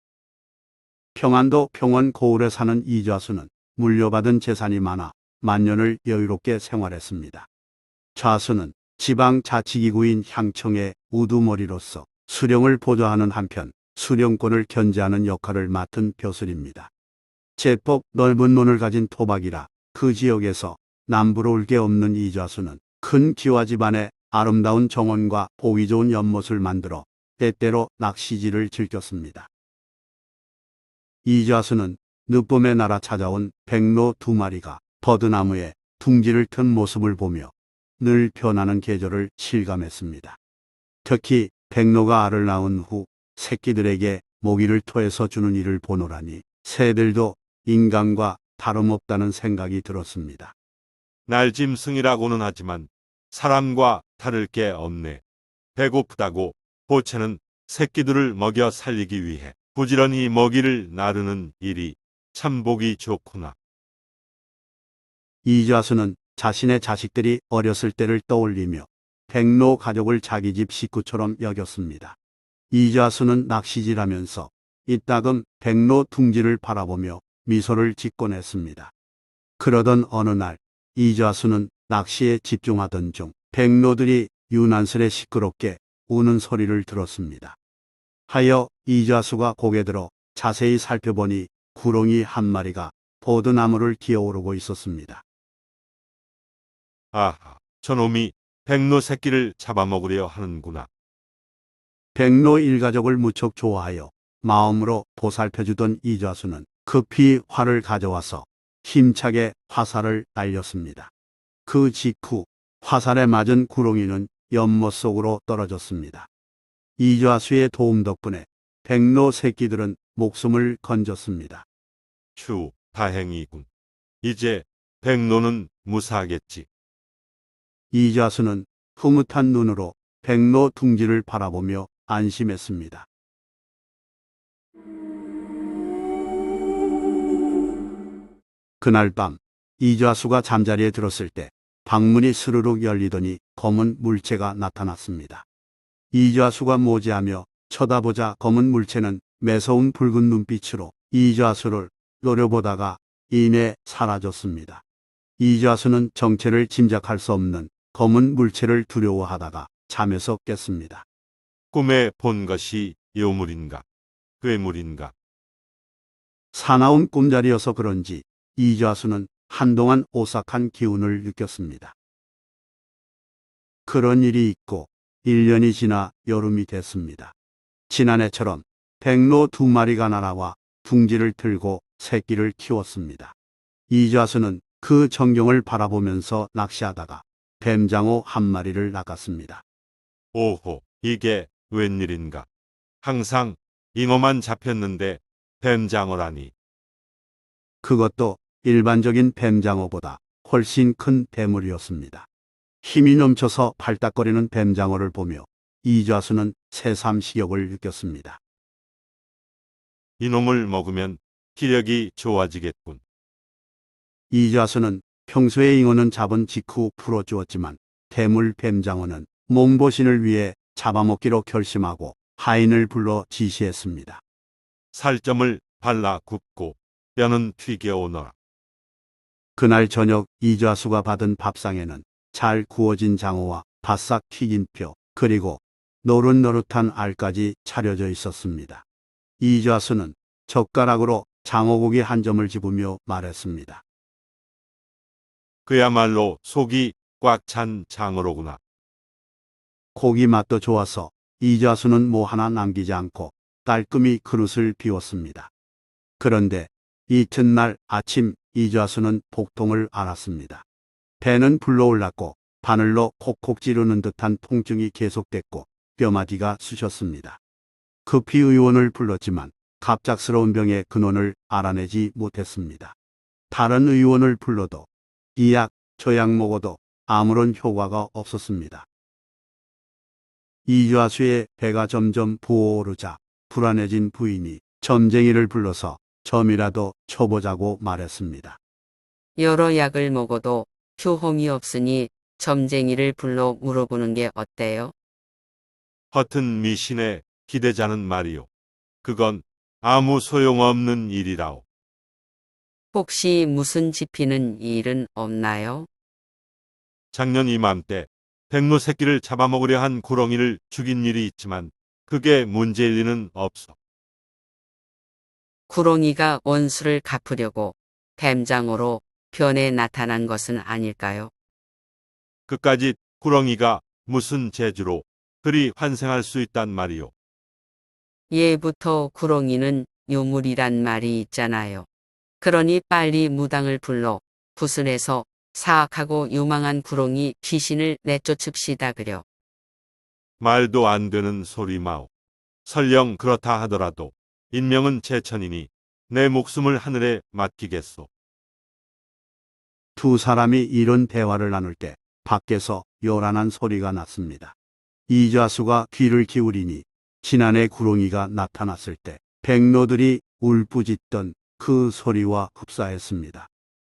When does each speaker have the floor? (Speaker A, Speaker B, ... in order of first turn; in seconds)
Speaker A: 1.1-7.5, 8.1-16.9, 17.6-29.5, 31.2-40.4, 41.0-50.5, 65.4-72.2, 72.7-78.9, 79.6-87.6, 88.3-95.2, 102.1-111.1, 111.7-116.3, 117.0-121.7, 127.9-133.1, 138.8-145.4, 146.1-154.8, 155.4-161.0, 166.5-171.9, 173.8-177.3, 177.9-183.3, 183.9-189.6, 197.8-202.3, 202.8-208.4, 214.3-224.2, 229.6-238.8, 239.4-243.8, 249.9-255.5, 256.2-260.6, 261.2-267.4, 268.1-272.9, 273.5-278.9, 280.6-288.6, 349.9-354.5, 355.1-363.5
Speaker B: 51.3-55.2, 55.8-63.5, 97.1-100.9, 122.3-123.7, 124.2-126.7, 161.7-163.8, 164.4-165.1, 190.3-192.5, 193.0-196.5, 210.2-213.0, 224.9-228.3, 245.7-248.6, 296.1-298.5, 299.0-301.6, 307.1-313.8, 322.5-327.1, 340.4-342.1, 342.6-348.1
Speaker C: 289.4-294.9, 302.9-305.9, 315.7-321.3, 328.3-331.9, 332.4-339.2